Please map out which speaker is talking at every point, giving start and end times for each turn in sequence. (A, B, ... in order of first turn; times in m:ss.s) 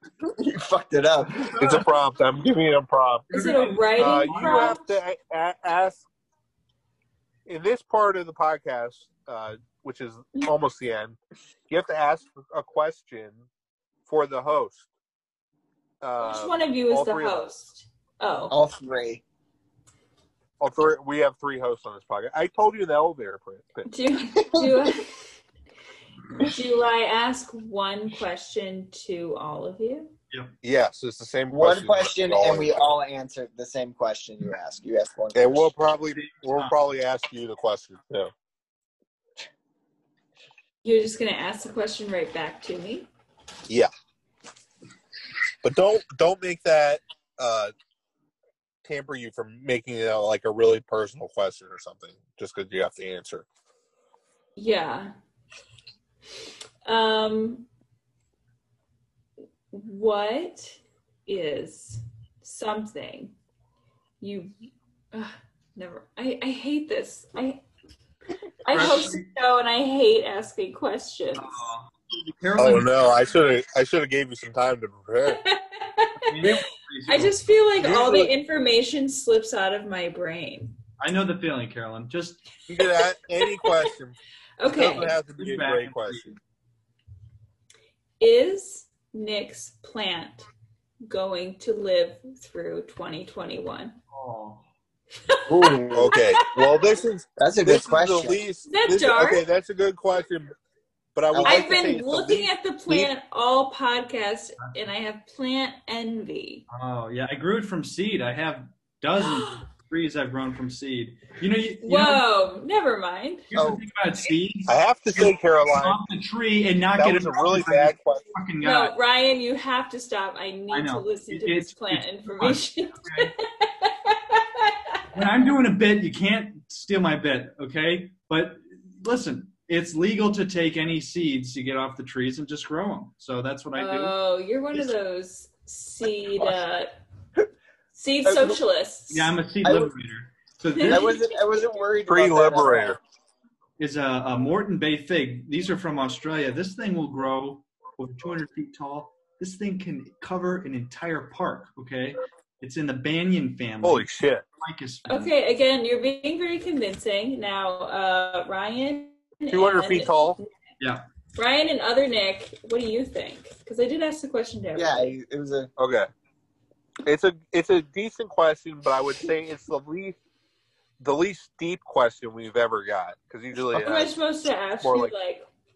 0:00.2-0:01.6 A
0:01.6-0:03.3 B
0:03.3-0:04.8 C
0:03.3-0:05.0 D
0:04.0-0:06.1 B
0:07.5-0:11.2 B
0:11.7-0:13.4 B
0:14.1-0:14.9 B
0:16.0-0:17.5 B
0:16.2-0:18.5 D
0:18.5-0:19.2 A
0:20.6-0:23.9 B
0:23.9-0:25.2 D
0:24.5-0:25.0 A
0:26.4-0:30.1 D
0:30.6-0:33.0 B
0:31.5-0:35.7 A
0:35.3-0:38.3 B
0:36.2-0:36.8 C
0:40.8-0:43.1 D
0:45.6-0:47.7 B
0:48.8-0:53.5 B
0:54.6-0:55.1 D
0:56.9-0:57.7 D
0:59.7-1:03.3 D
1:04.2-1:04.5 D
1:05.1-1:07.6 D
1:08.6-1:11.7 D
1:08.7-1:09.3 C
1:11.4-1:13.0 C
1:12.6-1:15.4 B
1:15.3-1:16.6 D
1:16.2-1:17.4 C
1:17.1-1:20.8 D
1:17.8-1:18.3 B
1:21.0-1:22.5 C
1:22.7-1:24.2 B
1:23.0-1:23.8 D
1:24.6-1:25.2 D
1:24.7-1:26.3 B
1:25.0-1:26.4 C
1:28.2-1:30.5 D
1:31.1-1:34.0 D
1:34.1-1:34.7 C
1:35.3-1:36.8 D
1:35.5-1:36.1 A
1:35.9-1:40.5 B
1:37.4-1:38.4 A
1:38.7-1:39.4 D
1:41.2-1:43.1 B
1:41.3-1:41.9 A
1:41.4-1:46.6 D
1:46.7-1:52.2 C
1:51.8-1:53.5 D
1:53.5-1:59.0 C
1:53.5-1:53.8 A
1:54.7-1:56.0 B
1:57.0-1:58.3 B
1:58.6-2:05.0 D
2:00.7-2:03.3 C
2:05.1-2:14.2 C
2:13.8-2:17.0 D
2:18.0-2:19.4 D
2:18.2-2:18.6 A
2:19.1-2:21.2 C
2:19.6-2:19.9 A
2:20.8-2:21.1 D
2:20.8-2:23.0 A
2:22.1-2:23.0 B
2:23.8-2:34.1 C
2:33.8-2:34.4 B
2:34.6-2:35.3 C
2:35.1-2:40.5 D
2:39.5-2:40.4 B
2:40.8-2:41.0 C
2:41.4-2:45.2 D
2:44.8-2:45.7 A
2:45.8-2:46.1 B
2:47.1-2:50.2 B
2:51.0-2:54.1 B
2:53.7-2:55.5 D
2:54.8-2:55.1 B